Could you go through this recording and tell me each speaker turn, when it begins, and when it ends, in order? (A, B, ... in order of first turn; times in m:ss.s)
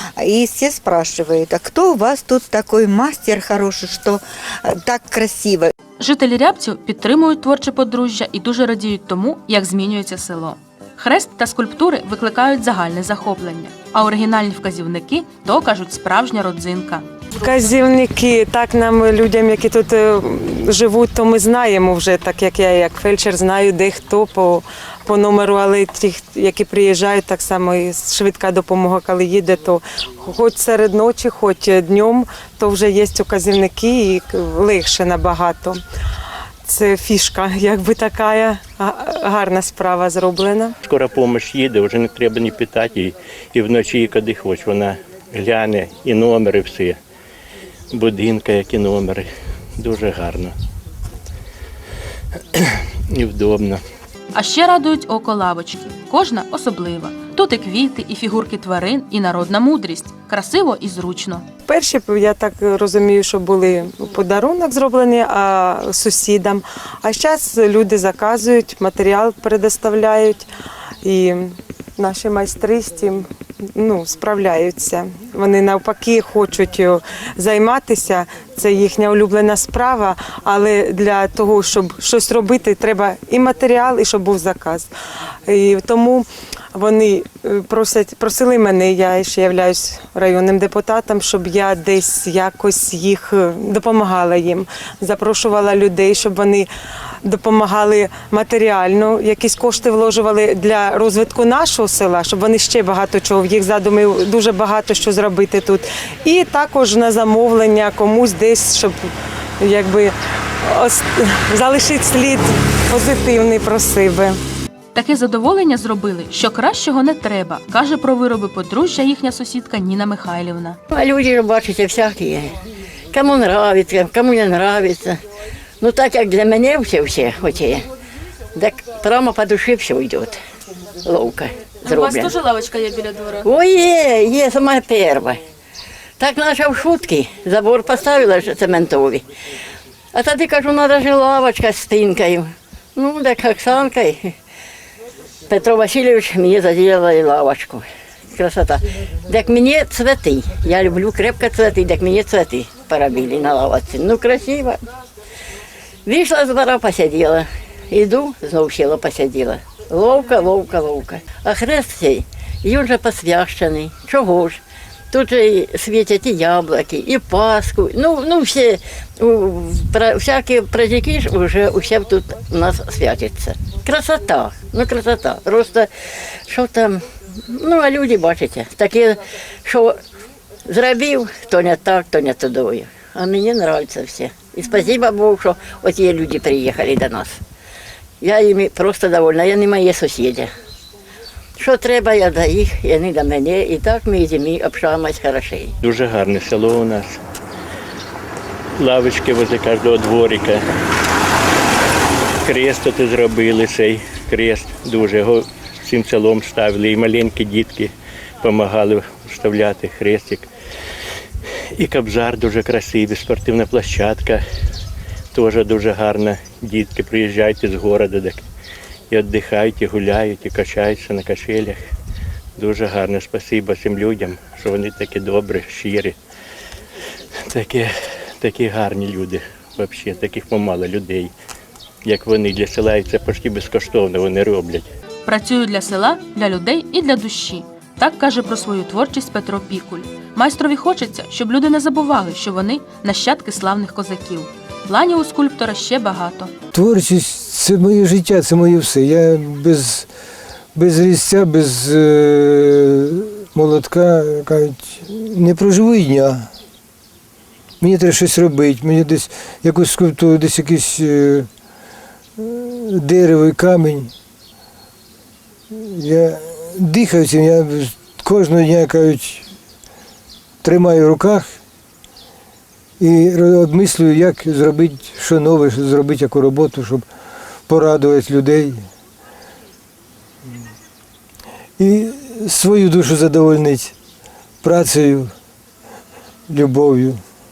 0:00.2-0:05.7 A
0:06.0-0:17.1 B
0:17.4-0:35.8 C
0:36.6-0:40.8 C
0:40.9-0:47.0 D
0:47.9-0:49.3 D
0:49.8-0:50.5 D
0:52.6-0:53.8 D
0:54.3-1:01.5 B
1:01.6-1:10.5 C
1:11.0-1:24.9 C
1:25.5-1:36.7 C
1:37.2-1:49.1 C
1:49.6-1:54.4 C
1:54.9-2:00.8 B
2:00.9-2:02.5 E
2:03.1-2:05.2 E
2:05.8-2:07.8 E
2:08.6-2:10.4 E
2:11.0-2:12.3 E
2:11.8-2:13.5 B
2:13.4-2:15.4 E
2:16.2-2:19.2 E
2:20.1-2:24.4 E
2:25.5-2:34.8 E
2:36.1-2:44.6 E
2:45.1-2:55.9 E
2:56.5-3:00.0 E
3:00.7-3:07.4 E
3:08.2-3:10.5 E
3:11.6-3:15.7 E
3:15.8-3:17.2 D
3:18.8-3:20.6 D
3:22.4-3:27.9 D
3:28.4-3:30.5 D
3:31.8-3:34.4 D
3:35.3-3:38.4 D
3:39.1-3:41.8 D
3:42.6-3:46.2 D
3:47.5-3:47.9 D
3:48.4-3:51.3 D
3:52.1-3:54.9 D
3:55.3-4:06.5 B
4:06.7-4:10.1 F
4:10.8-4:16.5 F
4:17.8-4:21.5 F
4:22.4-4:24.1 F
4:25.7-4:29.5 F
4:30.6-4:31.6 F
4:33.0-4:37.0 F
4:37.7-4:38.9 F
4:41.8-4:44.0 F
4:44.6-4:45.3 F
4:46.5-4:47.2 F